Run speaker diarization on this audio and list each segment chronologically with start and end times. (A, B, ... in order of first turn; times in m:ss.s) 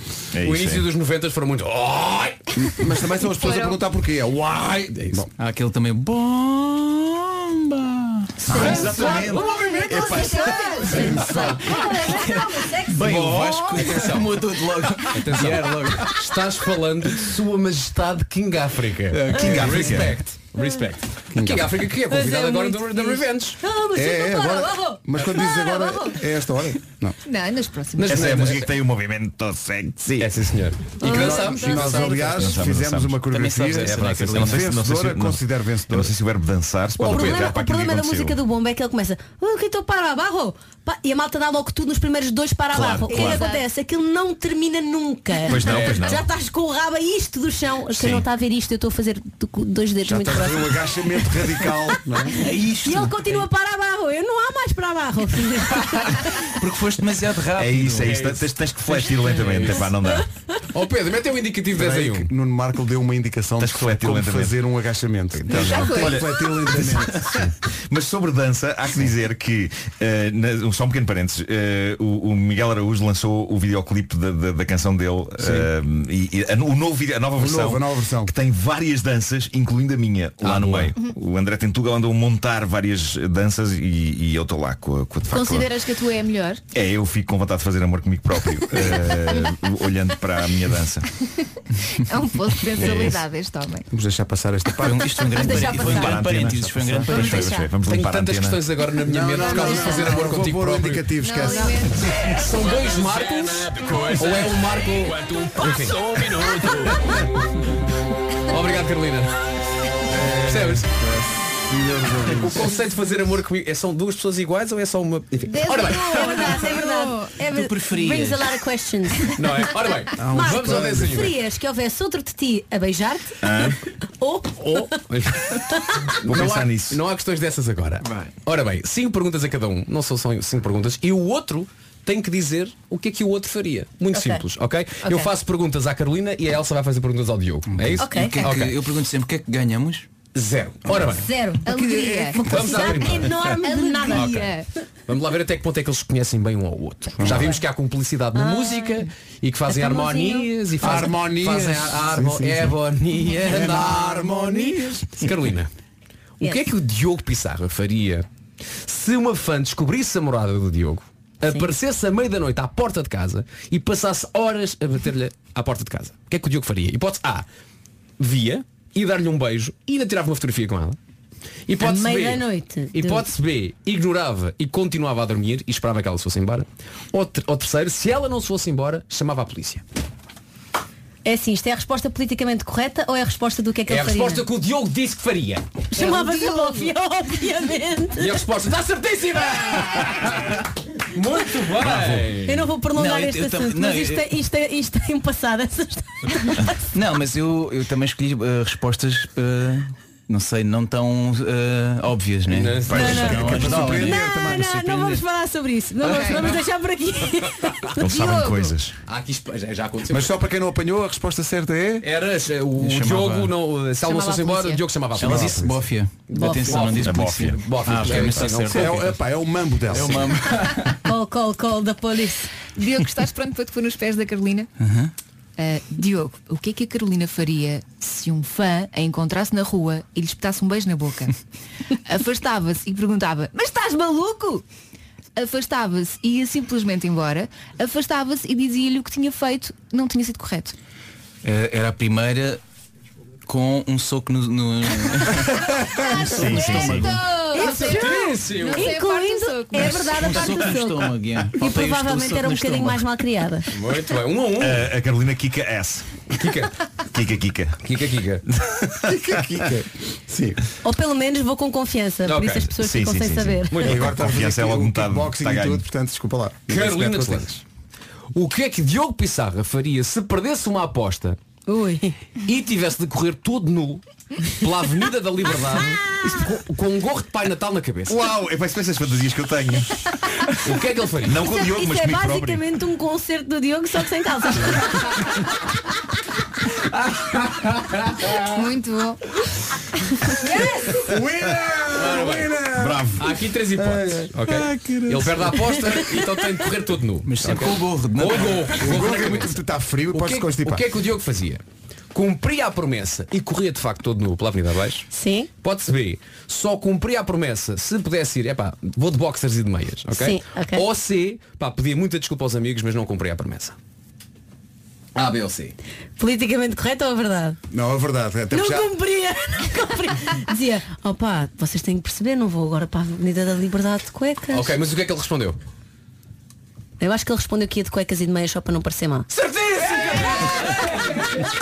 0:00.3-0:00.9 A
0:00.4-0:02.5 B
0:02.6-0:05.3 C
0:05.4-0:09.0 D
0:08.5-0:11.1 A
0:08.5-0:13.5 E
0:08.7-0:09.2 B
0:08.9-0:11.1 F
0:11.0-0:11.8 C
0:12.2-0:16.1 D
0:13.0-0:14.3 B
0:15.1-0:23.6 B
0:19.1-0:20.0 D
0:19.3-0:20.2 A
0:20.5-0:20.9 E
0:21.3-0:21.7 C
0:22.1-0:26.1 E
0:23.9-0:27.2 C
0:27.3-0:28.6 F
0:28.0-0:28.7 B
0:28.1-0:30.2 A
0:30.2-0:32.7 B
0:31.0-0:31.4 E
0:31.0-0:36.1 C
0:31.7-0:33.2 A
0:33.3-0:34.7 D
0:33.8-0:34.5 B
0:34.1-0:38.4 A
0:37.0-0:56.5 E
0:37.0-0:37.5 B
0:42.7-0:43.5 A
0:43.1-0:43.6 F
0:45.5-0:46.3 A
0:45.6-0:46.0 B
0:47.9-0:48.3 A
0:50.1-0:52.4 C
0:52.4-0:53.3 D
0:56.6-0:58.3 D
0:57.6-1:00.3 A
0:58.0-0:59.9 B
1:00.7-1:02.3 B
1:01.7-1:07.5 C
1:03.6-1:04.6 A
1:05.5-1:25.7 A
1:05.5-1:06.2 F
1:17.4-1:18.3 C
1:20.4-1:20.9 B
1:25.3-1:26.6 F
1:26.7-1:31.1 A
1:31.9-1:33.8 F
1:32.8-1:33.1 D
1:32.8-1:33.2 A
1:33.9-1:35.3 C
1:34.8-1:37.5 D
1:35.2-1:36.2 F
1:35.6-1:38.6 A
1:36.4-1:37.4 C
1:37.3-1:37.7 F
1:37.8-1:41.1 B
1:39.0-1:42.1 C
1:39.4-1:40.3 F
1:41.2-1:42.1 F
1:42.2-1:47.4 B
1:42.6-1:47.2 D
1:44.2-1:44.6 C
1:48.5-1:49.4 B
1:50.1-1:52.7 C
1:50.4-1:50.9 B
1:52.3-1:56.8 B
1:55.5-1:57.3 F
1:56.1-1:59.7 E
1:57.5-1:58.5 D
1:59.3-2:01.4 B
2:00.2-2:01.2 C
2:00.2-2:03.4 E
2:03.4-2:03.8 A
2:04.2-2:05.0 E
2:04.8-2:05.6 B
2:05.7-2:06.0 E
2:06.2-2:18.8 B
2:06.2-2:07.0 A
2:08.0-2:08.3 D
2:14.1-2:14.4 E
2:15.0-2:15.3 E
2:17.7-2:20.1 D
2:18.0-2:18.5 E
2:20.3-2:21.3 B
2:20.9-2:24.4 E
2:21.7-2:22.9 F
2:22.5-2:24.5 B
2:23.6-2:24.7 F
2:25.1-2:35.7 B
2:27.2-2:27.5 C
2:27.3-2:27.6 E
2:28.3-2:29.1 E
2:29.7-2:31.0 E
2:30.8-2:32.8 C
2:33.4-2:35.1 C
2:36.4-2:38.3 B
2:38.8-2:47.5 B
2:41.5-2:41.7 E
2:48.2-2:51.0 B
2:51.7-2:59.8 B
2:51.8-2:53.3 E
3:01.2-3:04.5 E
3:03.9-3:05.8 B
3:05.9-3:08.5 E
3:06.0-3:06.9 F
3:08.2-3:12.7 B
3:11.8-3:12.3 A
3:12.4-3:16.8 E
3:12.9-3:14.4 D
3:16.9-3:25.2 D
3:22.5-3:23.9 B
3:22.8-3:23.6 A
3:22.9-3:28.1 E
3:23.3-3:24.7 C
3:26.0-3:26.6 B
3:26.0-3:26.5 F
3:28.0-3:29.0 A
3:28.0-3:28.8 F
3:29.1-3:30.4 B
3:30.1-3:32.1 C
3:32.0-3:39.0 B
3:32.8-3:33.5 D
3:34.0-3:34.8 F
3:35.2-3:39.2 D
3:35.2-3:35.7 C
3:36.4-3:36.8 E
3:37.0-3:38.5 A
3:38.7-3:40.3 C
3:39.9-3:41.0 D
3:41.0-3:42.6 E
3:42.8-3:44.7 F
3:44.8-3:45.1 D
3:45.6-3:51.4 F
3:52.0-3:54.6 F
3:55.4-4:00.8 F
4:01.4-4:02.6 D
4:03.5-4:07.2 D
4:06.0-4:10.5 F
4:06.2-4:07.2 A
4:07.4-4:13.7 E
4:07.6-4:09.0 B
4:09.9-4:13.1 D
4:13.7-4:14.9 B
4:14.6-4:16.1 A
4:16.3-4:16.7 B
4:17.1-4:17.8 A
4:17.8-4:18.4 B
4:18.6-4:19.1 A
4:19.0-4:20.6 C
4:20.8-4:23.9 E
4:22.2-4:22.7 B
4:22.4-4:25.8 A
4:23.7-4:24.1 B
4:23.8-4:27.6 C
4:26.7-4:27.6 B
4:28.3-4:31.4 B
4:31.7-4:32.2 E
4:32.4-4:38.2 B
4:35.8-4:36.5 E
4:38.1-4:40.1 A
4:40.6-4:41.4 B
4:41.2-4:42.7 A
4:41.4-4:45.2 E
4:46.9-4:48.4 B
4:48.4-4:49.2 F
4:51.0-4:52.6 B
4:51.1-4:53.2 C
4:52.7-4:53.2 A
4:53.2-4:59.6 B
4:53.8-4:54.4 C
4:54.4-4:55.6 D
4:55.7-4:56.1 E
4:57.3-4:58.9 D
4:58.7-5:00.8 C
5:00.1-5:01.6 B
5:02.1-5:05.1 B
5:05.1-5:05.5 E
5:05.6-5:13.8 B
5:10.1-5:10.9 E
5:15.2-5:15.8 B
5:16.2-5:17.6 E
5:17.7-5:18.9 C
5:18.5-5:24.8 E
5:24.5-5:25.6 B
5:27.0-5:29.3 E
5:29.3-5:31.4 B